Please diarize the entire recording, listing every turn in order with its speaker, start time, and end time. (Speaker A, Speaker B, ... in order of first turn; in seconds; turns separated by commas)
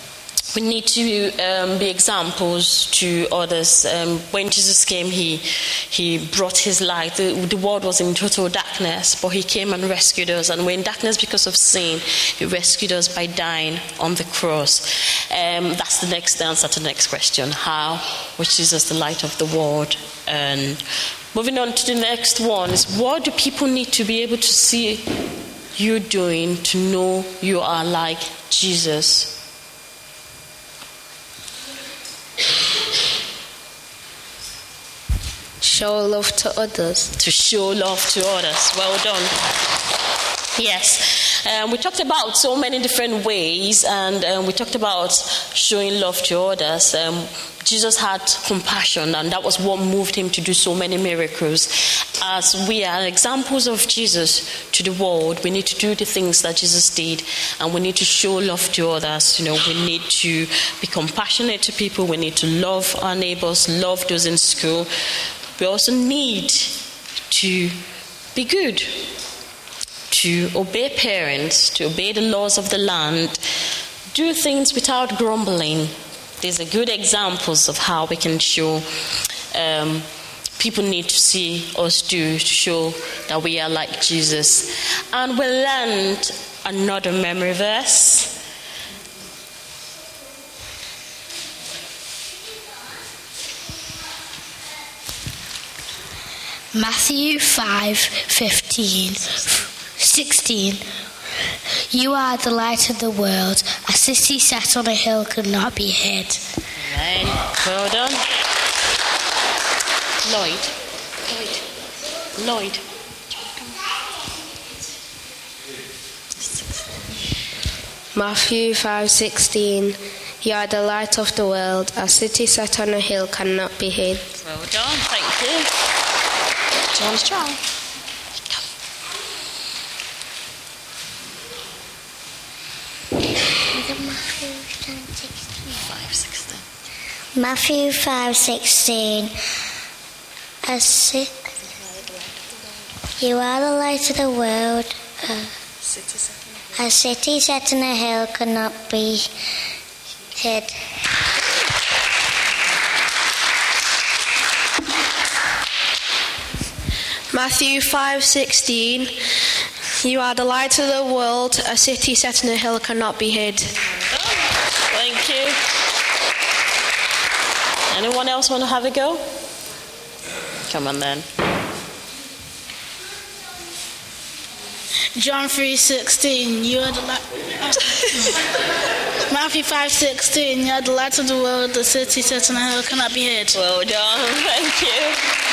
Speaker A: 0.5-25.1, Speaker A: 25.8-29.4, Speaker B: 35.6-37.1, Speaker A: 37.2-39.4, Speaker A: 40.6-64.9, Speaker A: 65.6-66.8, Speaker A: 67.3-67.8, Speaker A: 68.3-69.0, Speaker A: 70.1-73.4, Speaker A: 74.1-88.3, Speaker C: 96.7-100.8, Speaker C: 101.4-106.4, Speaker A: 106.8-108.2, Speaker A: 110.2-111.7, Speaker A: 112.4-113.7, Speaker A: 116.4-117.1, Speaker B: 118.1-124.3, Speaker A: 124.4-125.7, Speaker A: 126.9-127.6, Speaker D: 133.7-135.7, Speaker A: 135.8-136.7, Speaker D: 137.3-139.3, Speaker D: 140.7-141.3, Speaker A: 141.6-142.8, Speaker D: 143.2-145.5, Speaker A: 145.8-146.8, Speaker D: 146.8-149.3, Speaker D: 150.3-150.8, Speaker B: 157.3-159.2, Speaker B: 160.0-163.8, Speaker A: 164.0-165.6, Speaker A: 167.9-169.2, Speaker A: 170.7-171.3, Speaker E: 175.2-178.4, Speaker A: 177.9-178.3, Speaker E: 179.3-183.6, Speaker A: 183.5-185.2